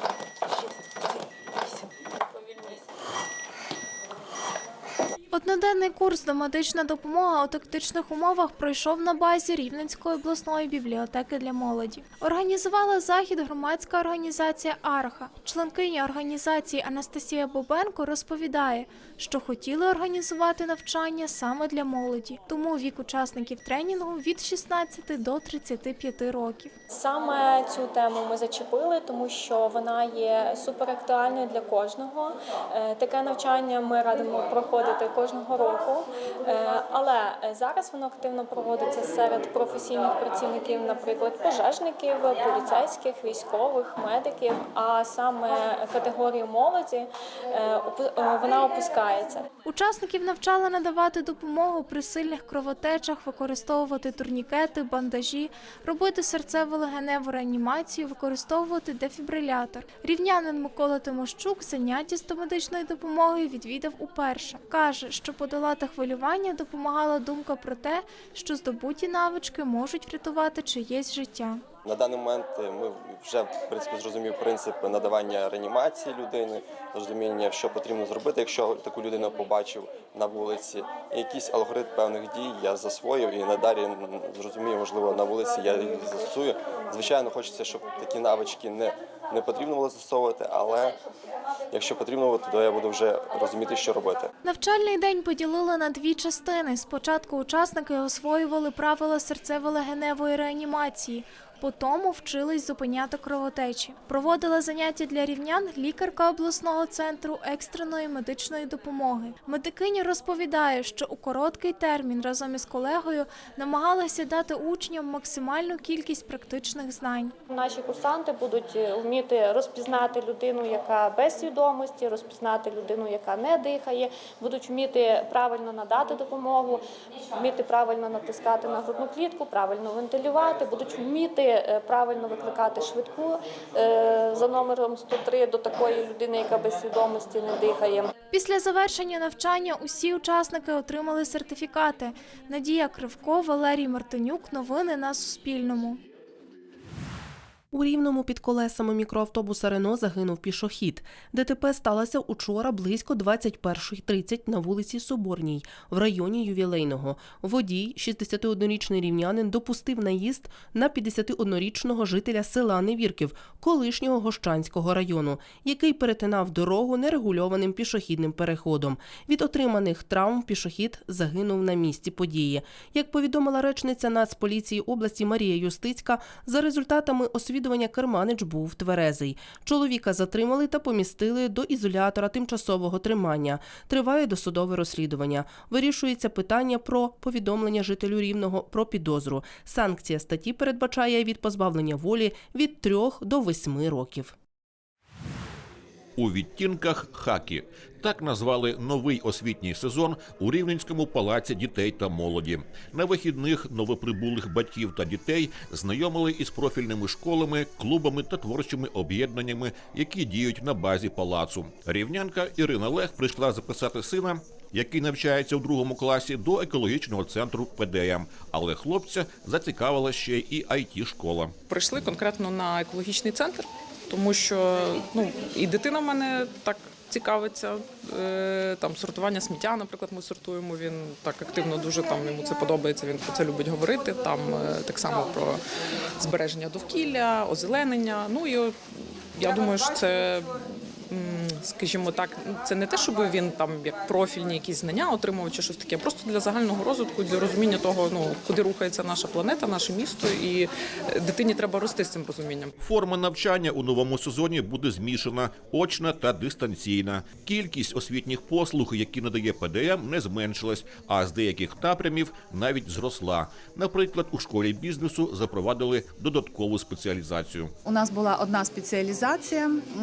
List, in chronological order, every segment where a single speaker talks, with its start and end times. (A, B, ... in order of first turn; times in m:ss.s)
0:05.3-0:26.7 A
0:26.9-0:49.5 B
0:49.6-1:11.6 A
1:11.8-1:31.0 C
1:31.7-1:34.3 C
1:34.4-1:57.3 A
1:57.5-2:18.1 D
2:18.3-2:26.0 A
2:27.7-3:14.3 E
3:16.2-3:41.5 F
3:41.7-3:55.6 G
3:56.2-3:58.8 G
3:59.3-4:12.7 G
4:12.8-4:27.7 F
4:27.9-4:29.8 H